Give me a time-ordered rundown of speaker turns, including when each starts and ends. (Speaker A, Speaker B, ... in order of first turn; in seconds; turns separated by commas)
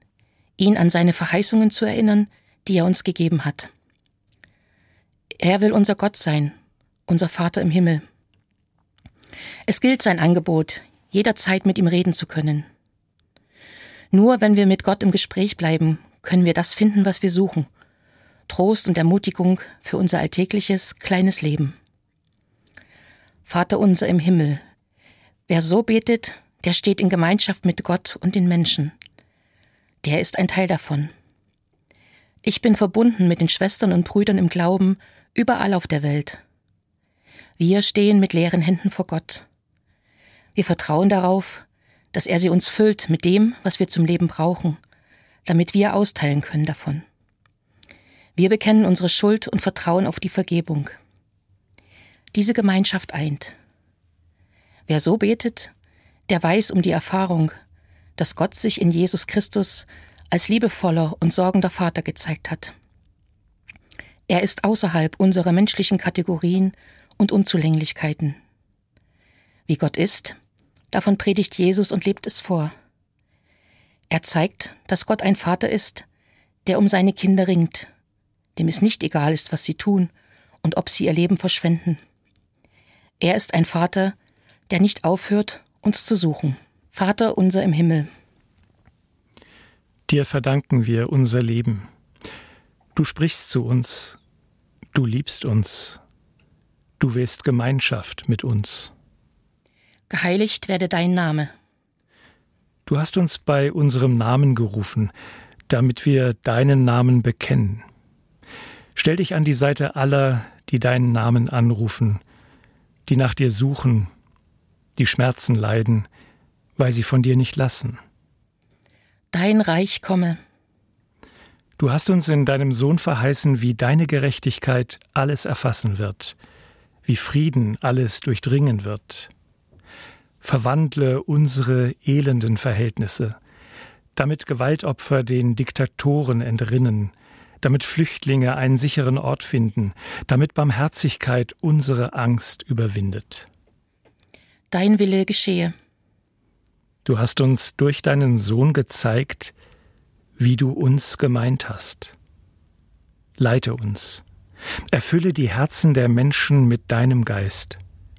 Speaker A: 0.6-3.7, Speaker A: 5.4-6.5, Speaker A: 7.1-8.0, Speaker A: 9.7-12.7, Speaker A: 14.1-17.7, Speaker A: 18.5-21.8, Speaker A: 23.4-24.6, Speaker A: 25.5-28.9, Speaker A: 30.0-31.1, Speaker A: 32.4-36.4, Speaker A: 37.6-39.5, Speaker A: 40.5-44.8, Speaker A: 45.5-47.0, Speaker A: 48.4-51.0, Speaker A: 52.3-53.6, Speaker A: 54.9-55.7, Speaker A: 56.3-57.5, Speaker A: 58.2-62.7, Speaker A: 64.3-68.4, Speaker A: 69.7-70.4, Speaker A: 70.9-72.7, Speaker A: 74.1-76.1, Speaker A: 76.7-77.9, Speaker A: 78.6-80.1, Speaker A: 80.6-82.0, Speaker A: 83.2-84.2, Speaker A: 84.7-88.1, Speaker B: 90.1-91.8, Speaker B: 93.0-94.2, Speaker B: 94.9-96.0, Speaker B: 97.0-98.9, Speaker A: 100.1-101.5, Speaker B: 102.9-105.1, Speaker B: 105.7-107.8, Speaker B: 109.0-112.2, Speaker B: 113.1-114.1, Speaker B: 115.0-116.1, Speaker B: 116.8-118.0, Speaker A: 119.3-120.4, Speaker B: 121.8-126.4, Speaker B: 127.0-129.3, Speaker B: 130.4-133.3, Speaker B: 134.2-143.5, Speaker A: 144.7-145.7, Speaker B: 147.1-149.6, Speaker B: 150.4-152.1, Speaker B: 153.4-154.2, Speaker B: 154.9-157.8